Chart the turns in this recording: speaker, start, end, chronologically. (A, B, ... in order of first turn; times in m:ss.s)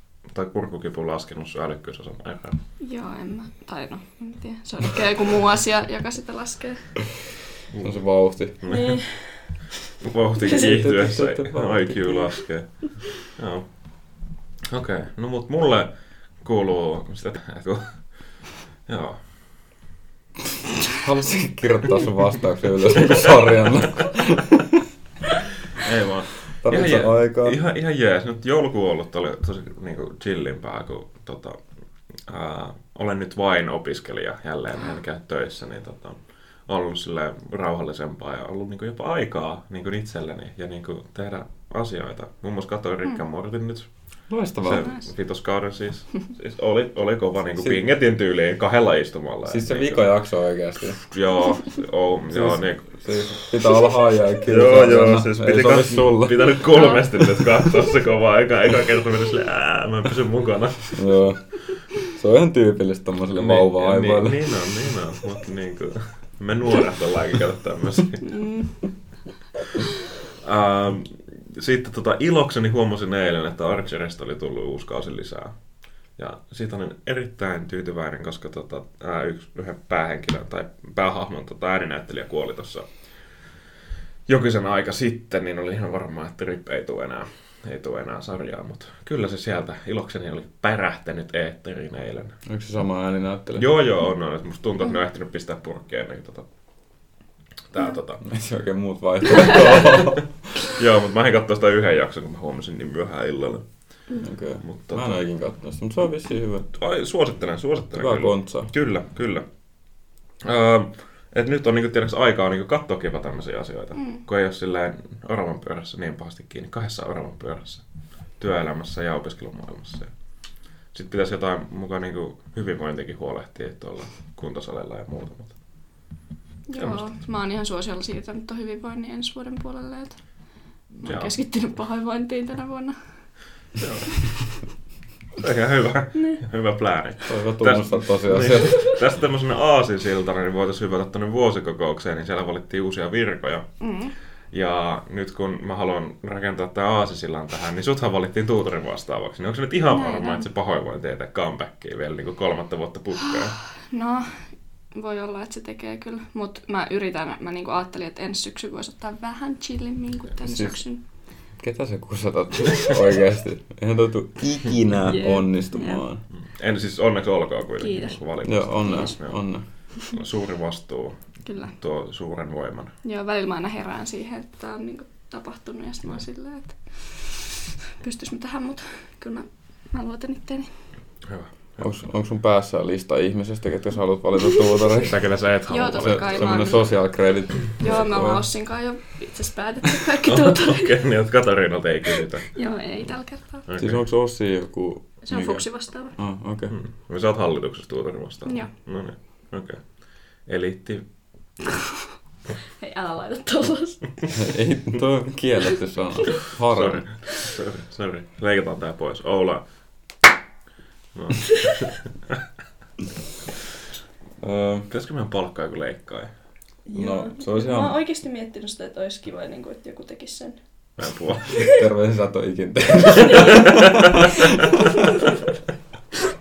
0:00.3-0:02.6 A
0:02.8-0:06.9 B
0:07.7-0:08.0 A
0:07.8-0:08.6 C
0:08.6-0:09.0 A
0:08.7-0:09.4 B
0:10.0-0:13.6 A
0:10.4-0:10.8 B
0:10.5-0:12.2 C
0:14.7-0:15.9 A
0:16.4-0:17.9 A
0:18.9-0:19.2 A
0:21.0-0:24.8 C
0:25.7-0:31.6 A
0:26.6-0:27.6 C
0:32.2-0:43.9 A
0:44.3-0:44.9 C
0:44.6-0:50.0 A
0:44.7-0:45.0 B
0:49.5-0:51.0 C
0:51.1-0:53.6 A
0:52.3-0:56.6 C
0:54.4-1:01.1 A
0:56.7-0:57.0 B
1:00.9-1:01.4 C
1:02.0-1:04.7 C
1:03.3-1:08.3 A
1:08.2-1:08.7 B
1:10.4-1:15.5 A
1:16.2-1:22.8 A
1:24.3-1:32.3 A
1:32.4-1:33.7 C
1:33.6-1:36.4 A
1:37.7-1:38.2 A
1:38.2-1:40.5 C
1:40.7-1:43.6 A
1:44.2-1:46.7 C
1:44.6-1:45.2 A
1:46.7-1:49.4 A
1:47.9-1:48.7 C
1:50.4-1:57.8 A
1:58.4-2:00.1 A
2:00.9-2:05.5 A
2:06.7-2:10.2 B
2:06.8-2:07.1 A
2:10.9-2:13.0 B
2:11.0-2:11.4 A
2:13.8-2:14.3 A
2:15.4-2:23.6 A
2:17.3-2:18.8 C
2:23.8-2:24.1 B
2:24.5-2:33.6 A
2:29.9-2:30.4 B
2:33.2-2:34.4 B
2:34.9-2:41.0 B
2:40.4-2:40.8 C
2:41.6-2:46.2 C
2:45.0-2:46.0 B
2:46.3-2:49.4 A
2:47.8-2:48.2 B
2:48.4-2:49.6 C
2:48.8-2:49.1 B
2:50.0-2:51.2 A
2:51.4-2:51.7 B
2:51.7-2:52.9 A
2:53.0-3:00.7 B
3:01.2-3:02.0 A
3:01.8-3:05.2 C
3:05.1-3:06.5 A
3:05.7-3:06.9 B
3:05.9-3:08.4 C
3:07.8-3:11.0 B
3:10.2-3:12.6 A
3:12.5-3:13.6 B
3:13.7-3:14.0 A
3:13.8-3:15.6 C
3:15.2-3:16.1 B
3:16.2-3:16.7 C
3:16.7-3:19.8 A
3:20.4-3:21.0 A
3:22.8-3:24.1 B
3:24.3-3:27.0 C
3:26.7-3:29.6 A
3:31.1-3:32.0 A
3:34.4-3:34.9 C
3:34.9-3:36.3 A
3:36.9-3:40.6 B
3:36.9-3:38.0 C
3:41.0-3:41.6 A
3:41.5-3:41.8 B
3:41.6-3:45.1 C
3:43.2-3:43.6 B
3:44.7-3:45.2 B